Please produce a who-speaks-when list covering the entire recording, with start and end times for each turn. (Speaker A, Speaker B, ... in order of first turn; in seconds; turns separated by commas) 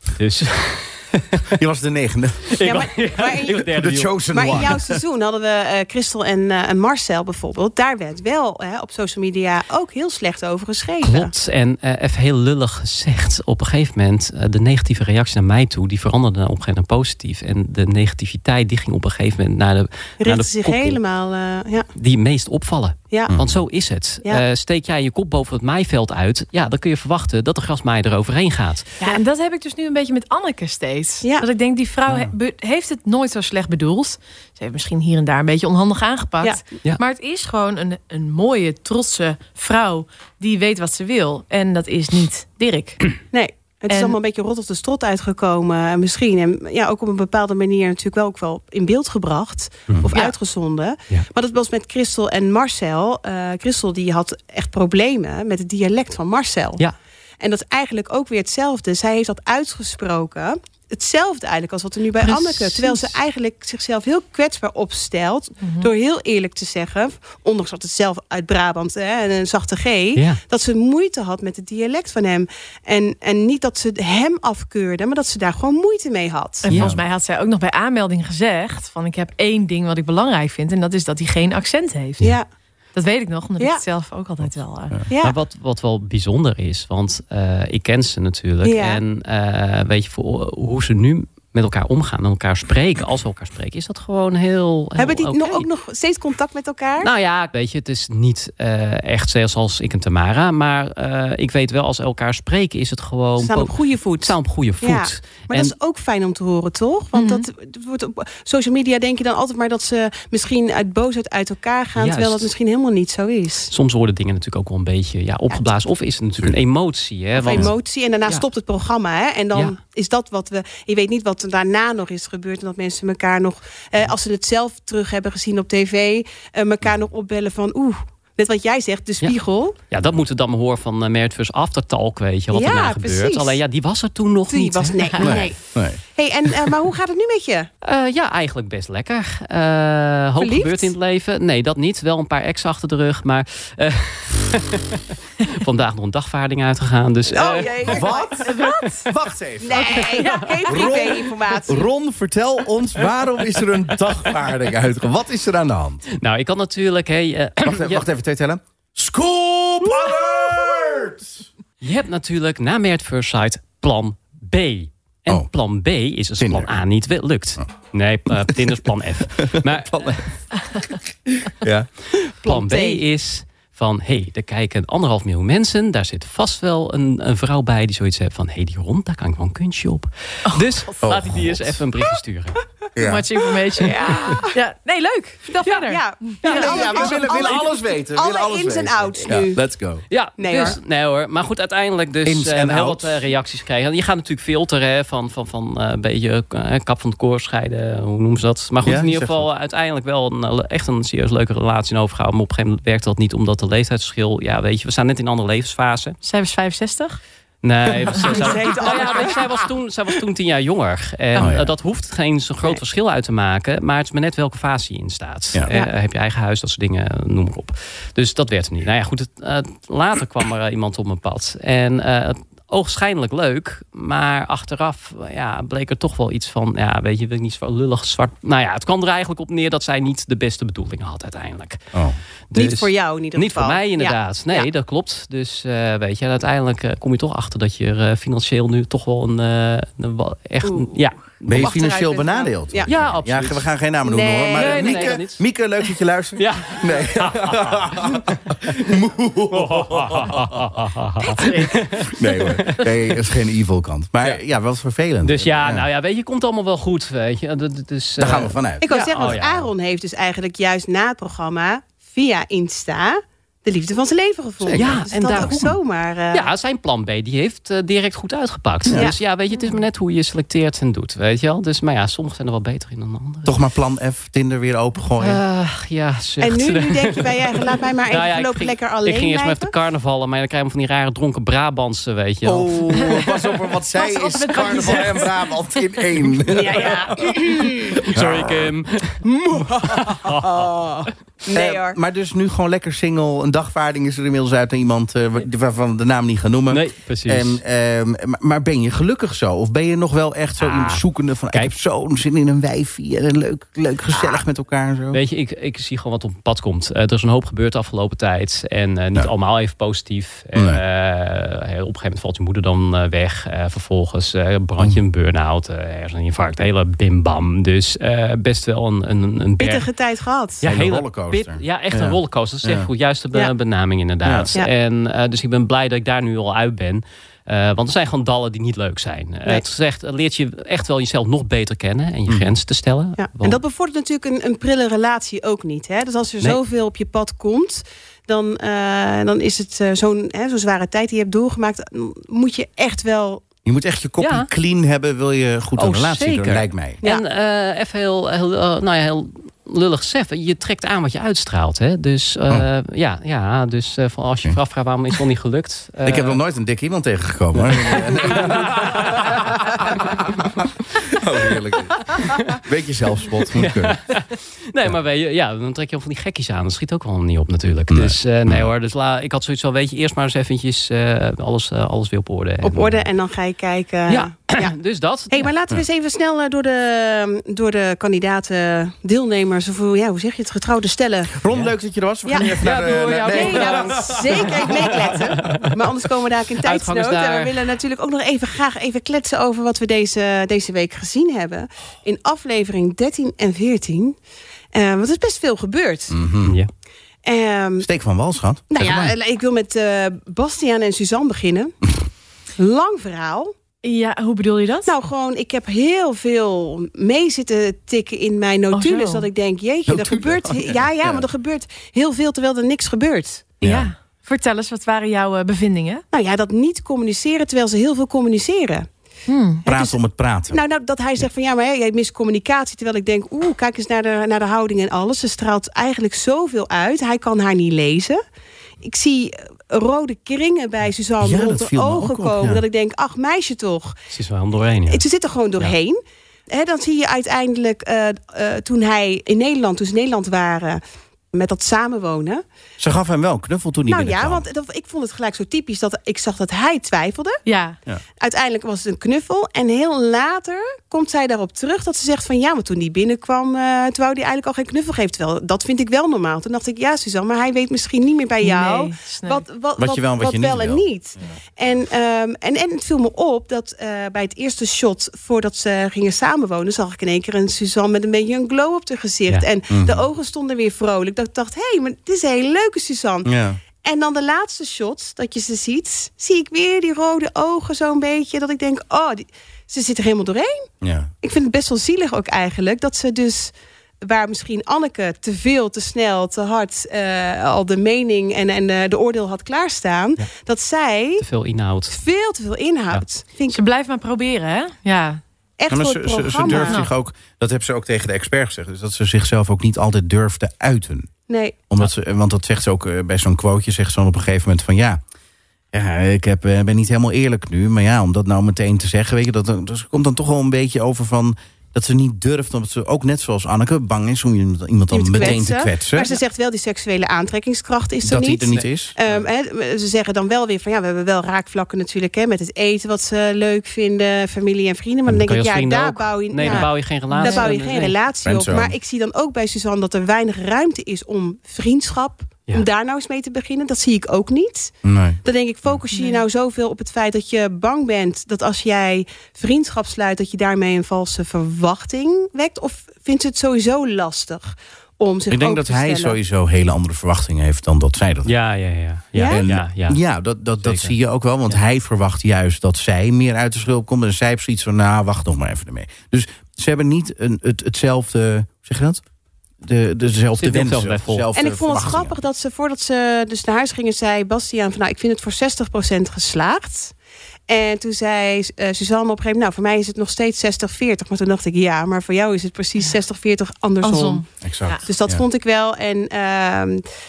Speaker A: 0.1-1.4, Speaker B: 1.5-2.9, Speaker A: 2.5-4.7, Speaker C: 2.6-3.7, Speaker B: 3.7-5.0, Speaker C: 4.3-11.3, Speaker A: 11.0-21.0, Speaker C: 20.2-21.9, Speaker A: 21.9-29.0, Speaker B: 23.3-23.6, Speaker D: 29.0-43.1, Speaker B: 32.1-32.3, Speaker C: 43.3-56.8, Speaker D: 43.9-44.1, Speaker C: 57.4-76.7, Speaker D: 65.6-65.9, Speaker D: 76.7-82.3, Speaker A: 76.7-76.9, Speaker B: 76.7-77.0, Speaker D: 82.9-85.0, Speaker C: 85.1-85.4, Speaker A: 85.2-95.7, Speaker C: 88.6-89.0, Speaker C: 95.0-97.1, Speaker A: 97.0-105.7, Speaker C: 103.4-113.7, Speaker D: 107.1-107.5, Speaker A: 112.0-112.5, Speaker A: 113.7-117.7, Speaker C: 117.3-129.8, Speaker A: 129.9-135.3, Speaker C: 132.5-133.6, Speaker C: 134.5-137.7, Speaker B: 135.2-136.0, Speaker A: 137.8-148.0, Speaker C: 140.4-140.9, Speaker C: 147.3-148.6, Speaker B: 147.8-156.1, Speaker D: 148.4-149.1, Speaker C: 149.6-151.9, Speaker A: 149.8-150.5, Speaker A: 156.1-158.1, Speaker B: 157.6-161.4, Speaker A: 161.8-170.4, Speaker B: 166.4-166.7, Speaker B: 169.4-170.3, Speaker B: 170.8-171.9, Speaker C: 172.4-173.0, Speaker A: 172.4-182.6, Speaker D: 180.5-181.1, Speaker B: 181.0-181.8, Speaker B: 182.9-183.8, Speaker D: 183.0-187.2, Speaker C: 184.0-184.5, Speaker A: 185.6-185.9, Speaker C: 185.9-189.6, Speaker A: 186.4-186.9, Speaker B: 186.5-190.0, Speaker A: 190.1-206.2, Speaker C: 190.4-190.8, Speaker B: 192.2-193.3, Speaker B: 198.8-199.5, Speaker D: 206.2-207.2, Speaker A: 207.6-231.9, Speaker C: 208.1-209.6, Speaker B: 211.3-211.7, Speaker A: 232.5-241.7, Speaker C: 232.5-234.7, Speaker C: 240.6-240.9, Speaker C: 241.4-242.9, Speaker B: 241.4-250.7, Speaker A: 242.8-243.7, Speaker C: 244.0-245.2, Speaker A: 244.5-245.4, Speaker A: 246.4-248.9, Speaker A: 249.5-252.9, Speaker D: 251.2-251.9, Speaker B: 252.0-255.8, Speaker A: 255.2-259.7, Speaker B: 258.2-259.4, Speaker C: 258.8-266.5, Speaker B: 264.6-265.7, Speaker A: 264.8-265.7, Speaker A: 266.3-273.6, Speaker B: 268.8-269.1, Speaker B: 273.4-275.4, Speaker A: 275.2-283.2, Speaker C: 276.4-279.7, Speaker B: 282.4-287.4, Speaker D: 283.0-283.4, Speaker D: 283.9-285.4, Speaker C: 286.5-288.0, Speaker A: 287.9-289.2, Speaker B: 288.1-288.7, Speaker C: 289.2-292.0, Speaker A: 289.8-290.7, Speaker B: 291.5-305.2, Speaker A: 296.7-297.6, Speaker A: 300.6-301.7, Speaker A: 305.1-319.9, Speaker B: 310.5-310.8, Speaker C: 319.6-320.6, Speaker A: 320.6-333.6, Speaker B: 320.6-322.9, Speaker B: 324.2-324.5, Speaker C: 333.2-343.4, Speaker B: 343.6-347.0, Speaker A: 344.2-344.5, Speaker A: 345.8-356.4, Speaker B: 356.0-364.0, Speaker A: 357.6-360.1, Speaker A: 361.2-361.5, Speaker A: 362.1-362.6, Speaker A: 363.5-373.1, Speaker B: 367.9-368.7, Speaker C: 372.6-374.7, Speaker A: 374.1-375.5, Speaker C: 375.3-381.4, Speaker B: 381.3-385.2, Speaker C: 382.2-382.6, Speaker A: 382.6-385.8, Speaker C: 383.2-394.1, Speaker A: 386.6-387.6, Speaker C: 394.7-396.2, Speaker B: 396.1-396.6, Speaker C: 397.2-397.9, Speaker B: 397.8-399.1, Speaker C: 398.7-401.7, Speaker C: 402.6-403.5, Speaker D: 403.8-404.9, Speaker C: 404.9-413.5, Speaker D: 408.7-409.2, Speaker B: 409.9-411.2, Speaker B: 413.6-413.9, Speaker D: 413.6-416.0, Speaker C: 416.1-418.9, Speaker D: 419.3-419.6, Speaker C: 419.6-420.0, Speaker B: 419.6-420.6, Speaker C: 420.5-428.2, Speaker C: 428.8-433.9, Speaker B: 431.2-432.6, Speaker A: 434.1-435.0, Speaker C: 434.9-440.8, Speaker C: 441.3-442.4, Speaker B: 442.8-444.4, Speaker C: 443.9-447.4, Speaker D: 447.4-447.8, Speaker C: 448.2-473.3, Speaker D: 458.4-459.4, Speaker B: 459.8-460.8, Speaker B: 469.7-470.1, Speaker B: 473.2-473.6, Speaker C: 473.8-480.7, Speaker B: 480.8-481.1, Speaker C: 481.2-491.2, Speaker A: 491.2-492.0, Speaker C: 491.9-493.6, Speaker D: 493.5-495.2, Speaker C: 495.6-496.8, Speaker B: 495.7-501.1, Speaker D: 496.5-496.9, Speaker C: 501.3-501.6, Speaker B: 501.7-505.0, Speaker B: 505.7-516.1, Speaker C: 514.9-546.2, Speaker B: 518.0-518.9, Speaker A: 518.5-519.2, Speaker A: 525.1-527.9, Speaker D: 526.4-527.5, Speaker B: 528.2-528.7, Speaker B: 534.8-535.2, Speaker D: 535.9-536.2, Speaker B: 545.3-548.3, Speaker A: 548.2-550.0, Speaker C: 549.1-549.4, Speaker B: 549.2-559.0, Speaker A: 550.6-550.9, Speaker B: 559.6-562.2, Speaker A: 560.4-561.3, Speaker C: 561.3-566.9, Speaker C: 567.5-574.2, Speaker D: 573.8-574.8, Speaker B: 574.4-575.2, Speaker C: 574.8-576.8